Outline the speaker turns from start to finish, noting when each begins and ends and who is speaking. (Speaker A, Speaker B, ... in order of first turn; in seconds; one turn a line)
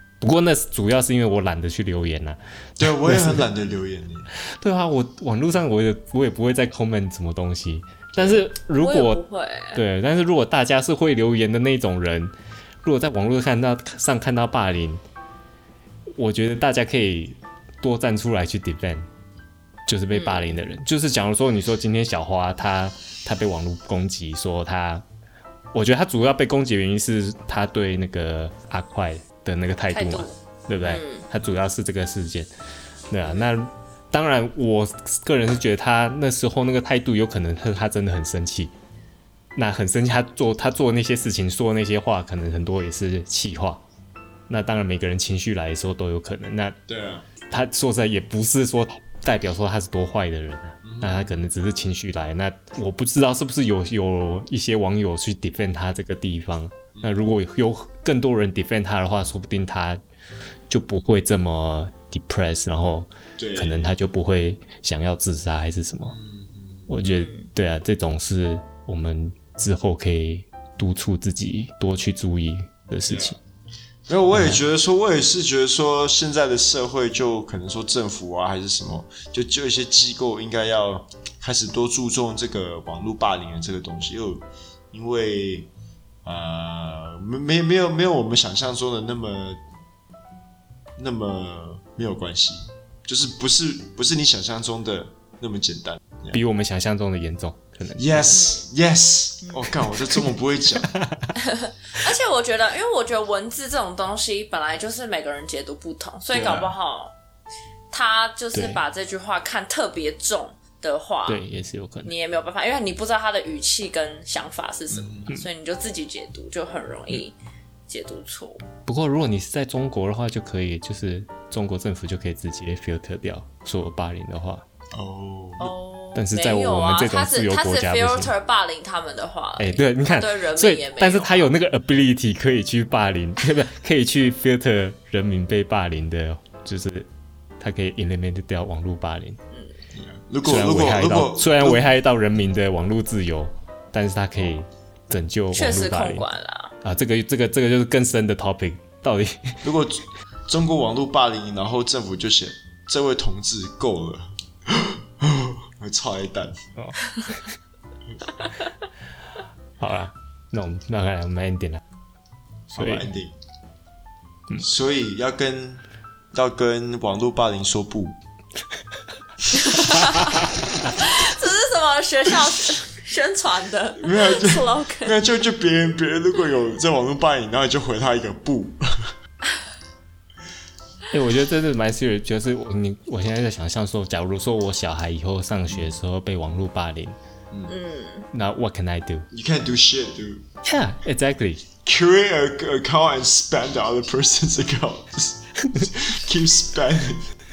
Speaker A: 0.2-3.5
Speaker B: 2.8-4.3
Speaker A: 4.5-9.2
Speaker C: 8.8-9.8
Speaker A: 9.7-15.0
Speaker A: 16.1-19.1
Speaker A: 19.9-25.1
Speaker C: 20.1-20.6
Speaker A: 25.7-32.5
Speaker C: 29.9-31.3
Speaker A: 33.1-38.7
Speaker A: 39.6-43.8
Speaker A: 44.5-46.8
Speaker B: 46.9-47.3
Speaker A: 47.5-60.0
Speaker B: 50.8-51.4
Speaker B: 57.0-57.3
Speaker A: 60.7-66.2
Speaker B: 63.4-63.9
Speaker B: 66.1-66.9
Speaker A: 66.9-73.4
Speaker C: 67.1-67.5
Speaker B: 73.1-73.4
Speaker B: 74.1-85.7
Speaker A: 74.3-74.6
Speaker B: 86.2-89.6
Speaker B: 91.0-96.4
Speaker A: 96.3-98.5
Speaker B: 98.0-100.9
Speaker C: 98.3-98.7
Speaker C: 99.4-99.8
Speaker A: 100.9-101.3
Speaker C: 101.4-107.1
Speaker B: 106.3-106.7
Speaker C: 107.9-111.4
Speaker A: 108.5-108.8
Speaker A: 111.3-112.1
Speaker C: 112.0-117.4
Speaker B: 114.9-115.3
Speaker C: 117.9-118.6
Speaker A: 118.9-124.6
Speaker B: 124.9-125.7
Speaker C: 125.6-131.5
Speaker A: 126.2-128.3
Speaker A: 129.6-137.1
Speaker A: 137.6-139.4
Speaker C: 139.5-139.8
Speaker B: 139.9-141.9
Speaker A: 140.4-146.3
Speaker C: 145.5-146.8
Speaker A: 146.8-149.6
Speaker B: 149.6-156.7
Speaker A: 156.8-157.5
Speaker A: 159.8-161.8
Speaker A: 162.7-163.1
Speaker B: 162.8-163.4
Speaker B: 164.6-168.2
Speaker C: 169.6-175.2
Speaker B: 174.0-179.1
Speaker A: 181.1-187.2
Speaker B: 187.5-187.8
Speaker C: 187.7-188.3
Speaker A: 188.3-189.3
Speaker B: 189.3-190.5
Speaker A: 190.6-191.6
Speaker B: 191.8-197.3